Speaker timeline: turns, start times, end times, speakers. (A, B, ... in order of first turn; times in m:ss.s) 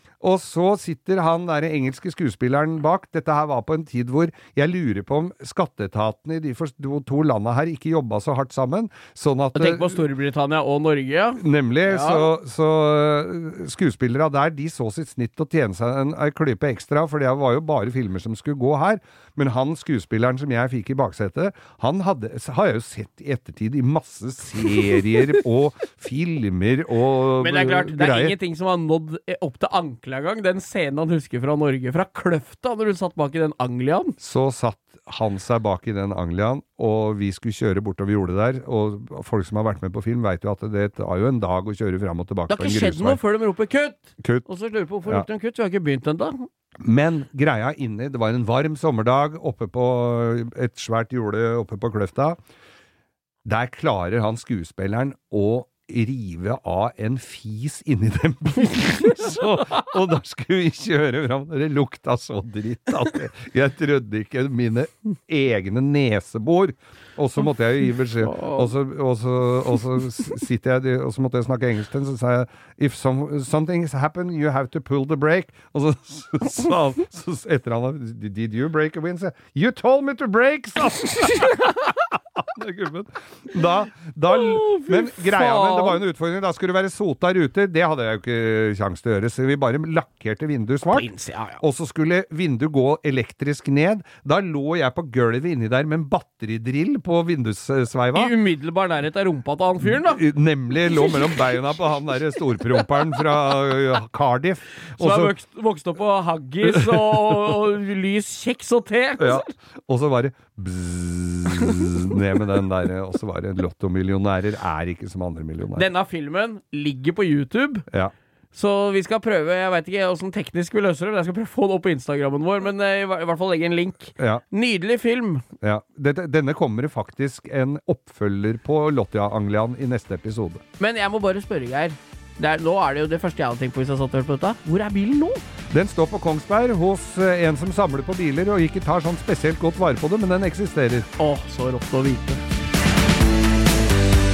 0:00.2-0:10.0 A
0:09.5-0:12.3 B
0:11.4-0:28.3 A
0:27.4-0:34.1 B
0:34.2-0:43.2 A
0:42.5-0:46.4 B
0:44.2-0:44.5 A
0:46.8-0:52.4 A
0:53.4-1:31.1 A
1:08.2-1:08.7 B
1:24.3-1:26.0 B
1:30.9-1:31.6 B
1:31.6-1:38.3 A
1:38.1-1:40.2 B
1:39.8-1:45.3 A
1:40.8-1:43.6 B
1:45.0-1:49.4 B
1:46.6-1:47.2 A
1:49.2-1:55.9 A
1:51.6-1:52.2 B
1:55.7-1:57.8 B
1:58.5-2:05.4 B
2:04.2-2:04.4 A
2:05.6-2:10.6 A
2:10.8-2:15.4 B
2:15.7-2:21.1 A
2:21.2-2:22.4 B